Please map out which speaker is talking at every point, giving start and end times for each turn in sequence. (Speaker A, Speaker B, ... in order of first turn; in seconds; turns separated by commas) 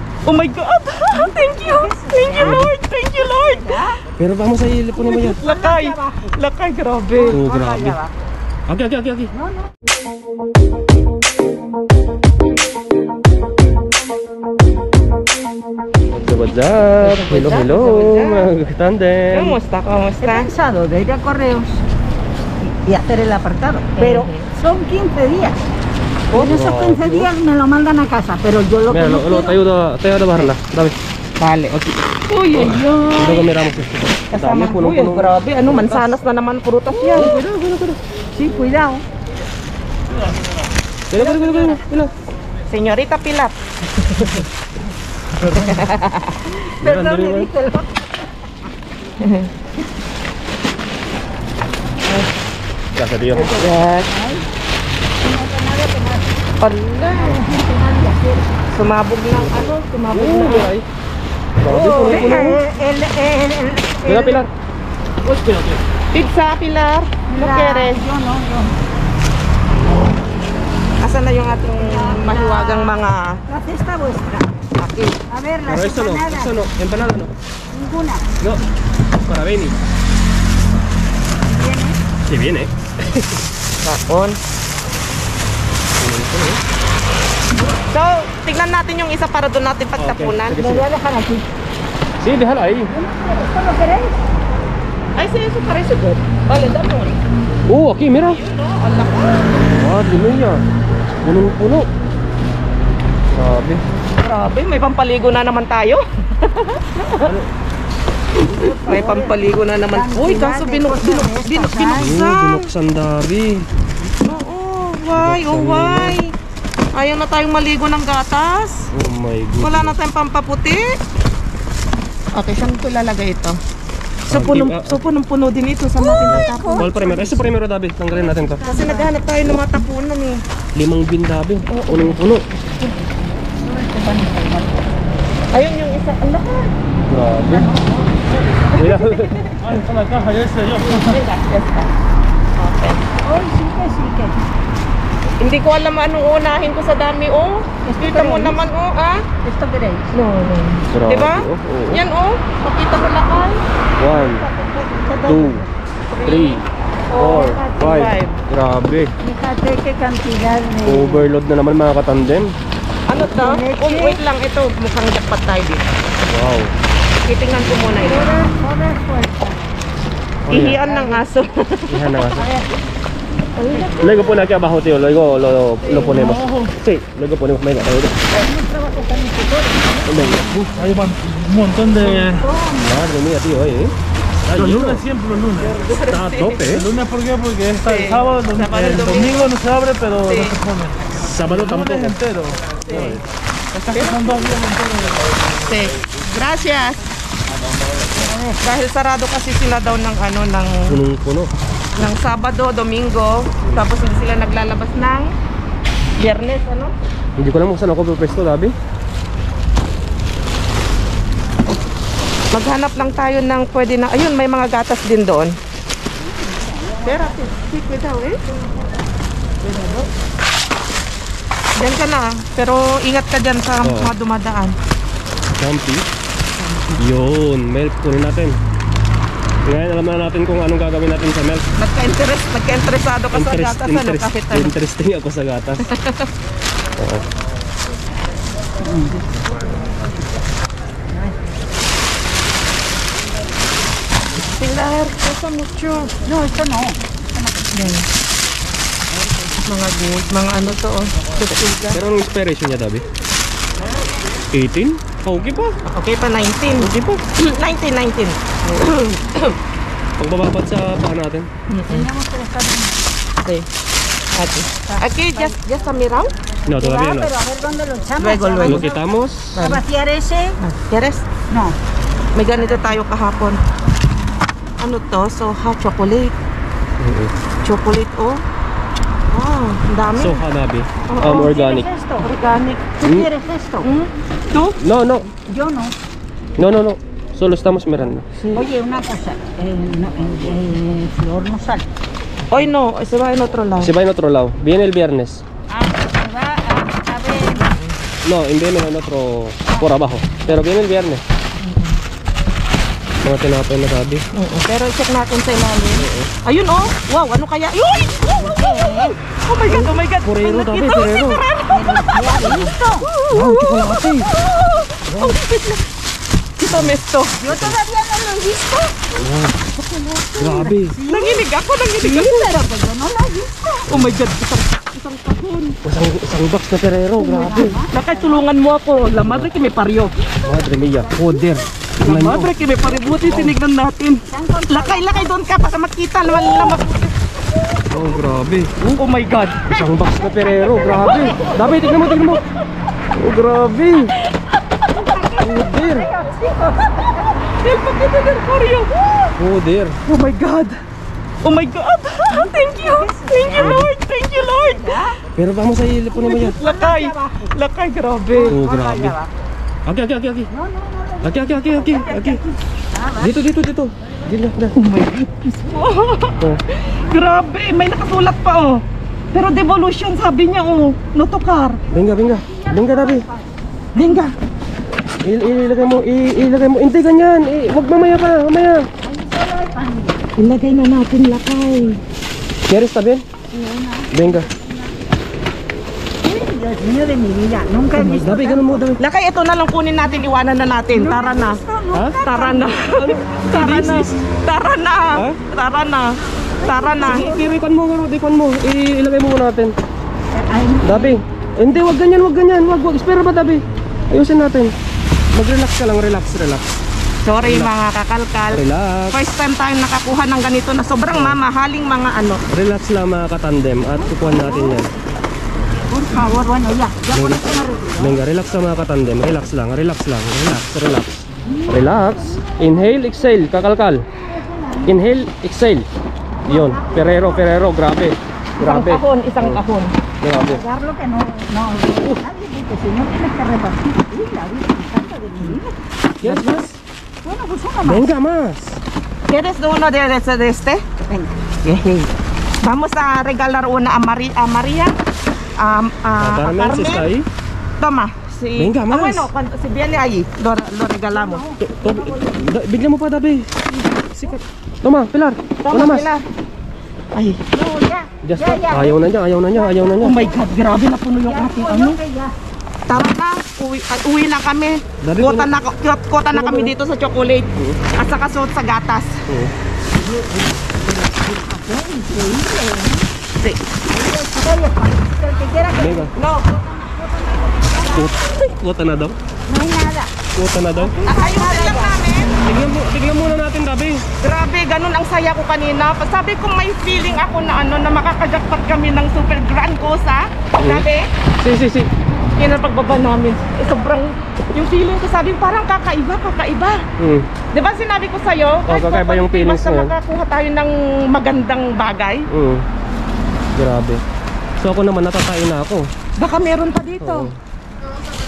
Speaker A: 0.2-3.8, Speaker B: 1.1-2.7, Speaker C: 2.4-2.7, Speaker B: 3.4-3.9, Speaker C: 4.2-5.4, Speaker B: 5.0-6.3, Speaker A: 5.3-7.4, Speaker B: 7.2-8.1, Speaker C: 7.3-8.0, Speaker C: 8.7-9.3, Speaker B: 9.3-9.7, Speaker C: 16.1-19.6, Speaker A: 17.0-18.5, Speaker A: 19.3-20.5, Speaker B: 20.2-21.8, Speaker B: 22.6-25.6, Speaker A: 24.0-24.5, Speaker B: 26.3-29.6, Speaker C: 26.4-27.3, Speaker C: 28.9-30.9, Speaker A: 31.4-31.8, Speaker A: 32.3-33.5, Speaker C: 32.5-36.1, Speaker A: 34.3-37.3, Speaker C: 36.9-38.0, Speaker B: 38.3-39.0, Speaker D: 40.1-40.4, Speaker C: 41.1-41.8, Speaker A: 41.1-42.1, Speaker A: 42.7-43.5, Speaker A: 44.1-44.4, Speaker D: 45.4-45.9, Speaker A: 45.6-46.4, Speaker B: 46.5-48.2, Speaker C: 46.8-47.5, Speaker A: 49.2-49.5, Speaker C: 52.9-53.5, Speaker A: 53.3-54.1, Speaker B: 53.4-54.4, Speaker B: 55.2-56.3, Speaker A: 56.6-57.4, Speaker B: 57.1-58.5, Speaker A: 58.7-60.7, Speaker C: 59.3-60.9, Speaker C: 61.6-62.6, Speaker A: 61.6-62.5, Speaker B: 61.9-64.4, Speaker C: 64.0-64.5, Speaker C: 65.2-65.8, Speaker A: 66.1-68.0, Speaker B: 67.3-68.7, Speaker A: 71.0-73.4, Speaker B: 71.8-74.5, Speaker A: 74.8-75.2, Speaker B: 75.3-76.5, Speaker C: 75.7-77.3, Speaker B: 77.7-78.3, Speaker C: 79.2-79.8, Speaker B: 81.4-82.0, Speaker C: 82.2-83.2, Speaker A: 83.8-84.4, Speaker C: 86.0-86.6, Speaker A: 87.9-90.6, Speaker C: 90.0-90.9, Speaker B: 90.5-91.4, Speaker C: 92.2-92.9, Speaker B: 92.9-94.2, Speaker A: 95.2-97.2, Speaker C: 97.7-98.4, Speaker A: 98.2-99.7, Speaker C: 99.7-100.6, Speaker C: 101.2-101.9, Speaker C: 103.3-103.8, Speaker A: 104.2-107.3, Speaker B: 108.4-109.4, Speaker A: 108.6-112.7, Speaker B: 109.9-112.1, Speaker C: 111.9-113.7, Speaker A: 114.2-116.3, Speaker C: 115.1-116.2, Speaker A: 116.9-118.9, Speaker C: 118.9-119.9, Speaker A: 119.6-121.0, Speaker A: 122.3-123.6, Speaker C: 124.3-125.1, Speaker A: 124.3-127.4, Speaker B: 126.1-126.9, Speaker C: 126.3-128.6, Speaker A: 128.6-130.4, Speaker B: 128.6-129.1, Speaker C: 130.7-132.4, Speaker A: 131.7-132.9, Speaker B: 133.6-134.8, Speaker A: 135.5-136.7, Speaker C: 137.1-137.7, Speaker B: 137.4-138.8, Speaker C: 138.7-139.4, Speaker A: 138.8-139.8, Speaker D: 139.6-141.2, Speaker A: 140.8-141.9, Speaker A: 142.6-143.0, Speaker B: 143.2-144.4, Speaker A: 145.4-149.2, Speaker B: 147.8-148.7, Speaker B: 149.4-150.1, Speaker A: 150.1-153.6, Speaker C: 150.9-152.0, Speaker C: 154.0-154.5, Speaker B: 154.0-155.7, Speaker C: 155.2-155.6, Speaker A: 156.1-158.4, Speaker C: 156.2-159.1, Speaker B: 159.2-161.3, Speaker C: 160.8-162.5, Speaker A: 163.1-165.8, Speaker B: 163.3-164.2, Speaker C: 166.3-166.7, Speaker A: 167.2-168.4, Speaker B: 168.0-169.6, Speaker C: 170.4-170.8, Speaker A: 170.5-172.0, Speaker B: 170.7-171.2, Speaker C: 171.9-172.5, Speaker B: 172.3-172.7, Speaker A: 173.6-174.3, Speaker B: 173.7-173.9, Speaker C: 174.0-178.2, Speaker D: 176.0-176.8, Speaker B: 178.3-180.5, Speaker C: 180.1-180.7, Speaker D: 180.7-182.5, Speaker B: 182.0-182.9, Speaker C: 182.8-183.9, Speaker C: 184.4-185.0, Speaker D: 184.5-192.6, Speaker A: 185.6-186.8, Speaker A: 187.8-189.5, Speaker A: 190.2-190.6, Speaker C: 191.2-192.2, Speaker A: 192.8-193.2, Speaker C: 192.9-193.2, Speaker A: 193.8-194.2, Speaker D: 193.8-195.5, Speaker A: 195.6-197.0, Speaker D: 197.6-198.2, Speaker B: 198.2-198.6, Speaker A: 198.6-201.0, Speaker C: 200.9-201.5, Speaker A: 201.9-205.3, Speaker A: 206.2-206.9, Speaker C: 207.4-208.7, Speaker A: 212.5-215.6, Speaker B: 216.3-217.4, Speaker A: 217.0-218.4, Speaker B: 219.6-220.1, Speaker A: 221.8-224.8, Speaker C: 223.8-224.1, Speaker C: 225.5-226.1, Speaker A: 226.6-227.0, Speaker C: 227.0-228.6, Speaker C: 229.6-231.7, Speaker A: 231.8-234.7, Speaker C: 233.3-235.9, Speaker A: 235.9-236.3, Speaker C: 237.0-237.2, Speaker B: 238.8-239.2, Speaker A: 244.4-246.1, Speaker B: 246.2-247.8, Speaker A: 247.7-248.1, Speaker A: 249.6-252.0, Speaker C: 251.9-253.0, Speaker C: 254.5-255.8, Speaker A: 255.9-259.6, Speaker C: 256.8-257.2, Speaker C: 260.2-261.5, Speaker A: 261.7-262.1, Speaker B: 261.9-263.0, Speaker A: 264.3-266.3, Speaker B: 264.9-265.5, Speaker C: 266.6-267.3, Speaker B: 266.7-269.0, Speaker A: 268.2-268.9, Speaker C: 268.6-269.6, Speaker A: 269.5-269.8, Speaker B: 269.5-270.6, Speaker A: 270.6-271.2, Speaker B: 271.5-271.8, Speaker A: 272.3-273.6, Speaker A: 274.8-276.3, Speaker C: 277.0-277.3, Speaker A: 277.6-278.4, Speaker A: 279.3-280.4, Speaker C: 280.2-281.9, Speaker A: 281.1-281.5, Speaker B: 281.2-282.3, Speaker A: 282.2-283.1, Speaker B: 283.0-283.9, Speaker C: 283.0-283.3, Speaker A: 283.8-284.8, Speaker C: 284.8-285.3, Speaker B: 285.4-285.9, Speaker C: 286.6-288.2, Speaker B: 288.5-291.8, Speaker A: 292.5-293.9, Speaker C: 293.8-295.4, Speaker B: 295.7-297.8, Speaker C: 298.2-301.2, Speaker A: 301.7-301.9, Speaker C: 303.2-304.2, Speaker A: 304.3-315.9, Speaker C: 306.0-306.3, Speaker B: 308.2-309.1, Speaker C: 309.7-311.4, Speaker B: 311.7-313.1, Speaker C: 313.3-314.3, Speaker C: 315.1-315.4, Speaker A: 316.6-317.4, Speaker C: 316.7-317.8, Speaker B: 317.4-319.0, Speaker C: 319.2-319.6, Speaker A: 319.9-320.2, Speaker C: 320.4-321.0, Speaker B: 320.4-321.4, Speaker A: 321.0-322.5, Speaker B: 322.0-323.8, Speaker A: 323.8-325.8, Speaker C: 323.9-324.2, Speaker C: 325.8-327.8, Speaker B: 327.2-328.4, Speaker A: 327.5-330.1, Speaker C: 329.2-329.5, Speaker C: 330.4-333.5, Speaker B: 331.0-331.3, Speaker A: 332.0-337.1, Speaker B: 334.3-335.3, Speaker C: 337.9-339.0, Speaker A: 338.9-339.7, Speaker C: 339.6-342.4, Speaker A: 341.0-342.1, Speaker B: 341.1-341.5, Speaker C: 343.1-344.1, Speaker A: 344.8-345.4, Speaker B: 345.0-347.4, Speaker C: 345.4-346.1, Speaker A: 346.9-349.3, Speaker C: 349.4-350.0, Speaker A: 350.1-350.8, Speaker A: 351.4-355.1, Speaker B: 352.3-353.8, Speaker C: 353.6-353.9, Speaker B: 354.6-355.1, Speaker C: 355.4-356.6, Speaker B: 356.2-357.5, Speaker A: 356.2-358.6, Speaker B: 358.3-359.3, Speaker C: 358.5-359.1, Speaker C: 359.9-360.5, Speaker B: 360.5-363.4, Speaker C: 361.2-362.4, Speaker C: 363.2-364.7, Speaker A: 364.8-371.8, Speaker C: 371.9-373.3, Speaker B: 372.4-373.4, Speaker A: 373.9-374.3, Speaker C: 375.2-378.9, Speaker B: 379.0-380.2, Speaker A: 380.4-382.0, Speaker C: 382.7-383.2, Speaker B: 383.5-384.9, Speaker C: 384.1-384.5, Speaker B: 386.2-388.9, Speaker C: 388.2-389.0, Speaker A: 389.0-391.6, Speaker B: 390.9-393.1, Speaker C: 391.9-392.2, Speaker A: 392.2-397.4, Speaker C: 393.0-394.2, Speaker C: 395.1-395.4, Speaker B: 396.6-397.4, Speaker C: 397.1-399.7, Speaker B: 400.3-401.2, Speaker C: 400.8-404.7, Speaker C: 405.3-406.6, Speaker A: 407.2-412.4, Speaker C: 407.4-407.7, Speaker C: 408.5-409.2, Speaker C: 411.1-411.4, Speaker C: 412.5-414.9, Speaker B: 414.3-414.8, Speaker B: 415.9-418.2, Speaker C: 417.1-424.1, Speaker B: 421.5-422.6, Speaker B: 424.3-424.9, Speaker C: 424.8-425.9, Speaker C: 426.4-429.6, Speaker B: 426.5-427.4, Speaker A: 428.6-429.9, Speaker C: 430.2-430.6, Speaker B: 430.4-435.7, Speaker C: 436.2-436.8, Speaker B: 437.2-438.1, Speaker C: 437.8-438.8, Speaker A: 439.3-440.9, Speaker B: 441.0-441.4, Speaker A: 441.6-444.9, Speaker A: 445.6-447.1, Speaker C: 446.2-447.3, Speaker A: 447.8-451.4, Speaker C: 448.6-449.3, Speaker B: 451.1-452.4, Speaker C: 451.6-453.5, Speaker C: 454.2-456.1, Speaker A: 455.6-456.2, Speaker A: 457.1-457.4, Speaker B: 457.5-460.4, Speaker C: 458.2-460.2, Speaker A: 460.0-462.0, Speaker B: 461.2-462.3, Speaker A: 462.9-469.2, Speaker C: 465.0-465.5, Speaker C: 466.3-466.7, Speaker C: 467.5-467.8, Speaker C: 469.3-469.5, Speaker B: 470.0-473.1, Speaker B: 473.9-478.1, Speaker C: 475.7-476.1, Speaker A: 476.1-476.6, Speaker C: 477.9-479.2, Speaker B: 479.5-480.1, Speaker C: 480.3-481.1, Speaker B: 480.8-482.0, Speaker A: 481.1-482.3, Speaker C: 482.4-484.1, Speaker A: 484.2-491.1, Speaker C: 490.6-490.9, Speaker C: 491.4-491.9, Speaker A: 492.4-496.9, Speaker C: 497.0-497.3, Speaker A: 497.5-502.3, Speaker C: 498.7-499.9, Speaker C: 502.3-502.6, Speaker C: 503.6-504.0, Speaker C: 504.6-505.9, Speaker A: 506.2-507.3, Speaker C: 507.0-507.4